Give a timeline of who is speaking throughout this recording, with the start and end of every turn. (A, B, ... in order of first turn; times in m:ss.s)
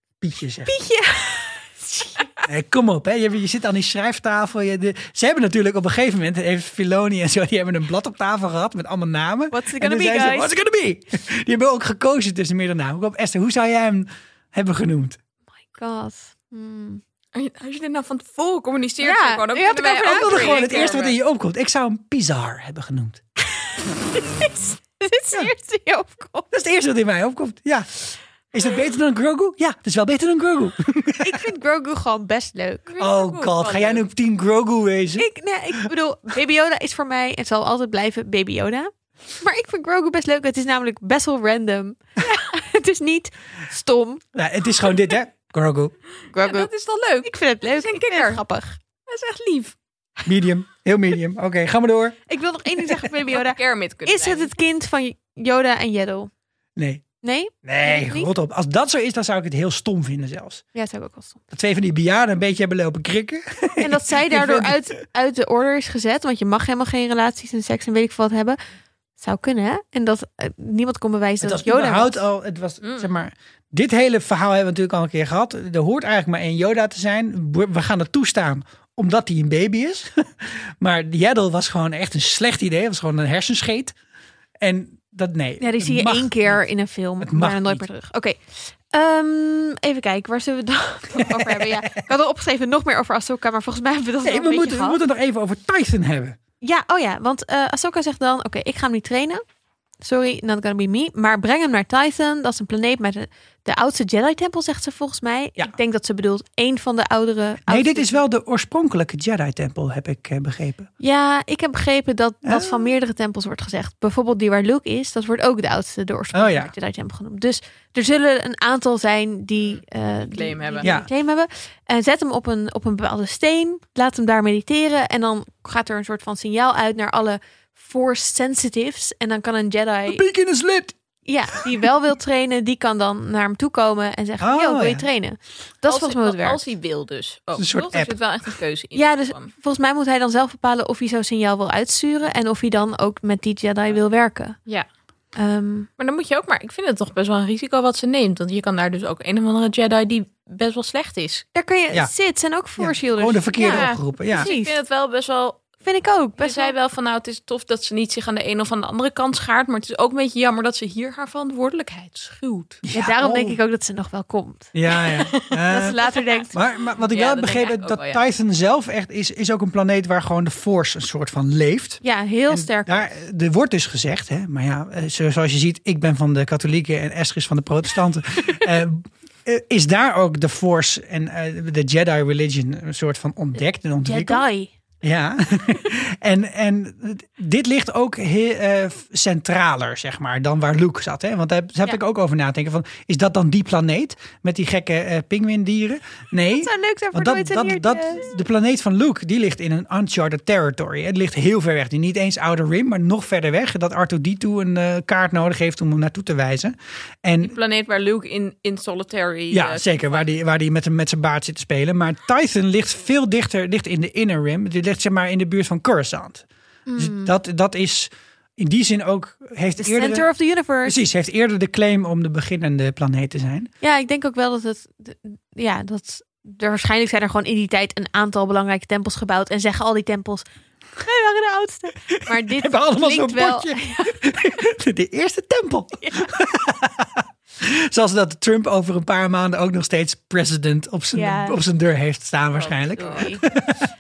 0:00.2-0:00.7 A
0:00.7-0:02.3 B
0:02.5-0:15.2 A
0:09.5-0:10.6 B
0:15.7-0:17.0 B
0:17.3-0:21.2 C
0:19.0-0:21.0 B
0:20.0-0:23.2 A
0:23.6-0:26.5 B
0:26.5-0:27.9 A
0:28.5-0:31.4 A
0:31.2-0:32.9 B
0:32.9-0:34.0 C
0:33.0-0:35.3 A
0:35.2-0:44.2 B
0:44.3-0:46.0 A
0:46.3-0:46.7 B
0:46.3-0:48.4 C
0:47.2-0:48.8 B
0:49.1-0:49.8 C
0:50.2-0:52.2 A
0:52.3-0:56.3 B
0:53.3-0:54.5 C
0:56.8-0:57.0 A
0:57.2-0:58.3 B
0:57.6-1:00.6 A
1:00.8-1:01.4 B
1:01.5-1:04.8 A
1:03.8-1:08.6 B
1:09.2-1:12.2 B
1:11.4-1:23.9 A
1:12.8-1:13.1 C
1:24.6-1:26.6 A
1:25.6-1:28.4 B
1:27.2-1:27.8 A
1:28.9-1:35.0 B
1:31.2-1:31.9 A
1:34.2-1:36.4 A
1:36.6-1:39.4 B
1:40.0-1:48.2 B
1:47.7-1:50.9 A
1:51.0-2:10.2 B
1:52.4-1:52.9 A
1:56.3-1:56.7 A
1:59.6-2:01.0 C
2:10.1-2:11.0 A
2:11.2-2:16.6 B
2:14.4-2:15.1 A
2:15.8-2:19.5 C
2:17.6-2:18.2 A
2:19.0-2:24.6 B
2:25.4-2:25.9 B
2:26.0-2:31.5 C
2:31.6-2:34.7 B
2:32.8-2:34.5 A
2:33.6-2:35.6 C
2:35.8-2:36.8 B
2:36.4-2:42.8 C
2:42.8-2:43.6 A
2:42.9-2:44.7 B
2:44.7-2:46.0 A
2:45.1-2:46.2 C
2:45.7-2:46.5 B
2:46.5-3:04.4 A
2:47.0-2:48.2 C
2:52.0-2:53.1 B
3:04.0-3:04.7 B
3:05.0-3:27.6 A
3:16.6-3:18.3 B
3:27.4-3:30.2 C
3:29.5-3:36.4 A
3:36.9-3:37.3 B
3:37.0-3:40.3 A
3:39.8-3:41.0 B
3:40.8-3:43.7 A
3:43.8-3:50.4 B
3:51.0-3:54.2 B
3:52.4-4:03.8 A
3:56.0-3:56.3 B
4:01.1-4:01.6 B
4:02.6-4:03.4 C
4:03.0-4:03.4 B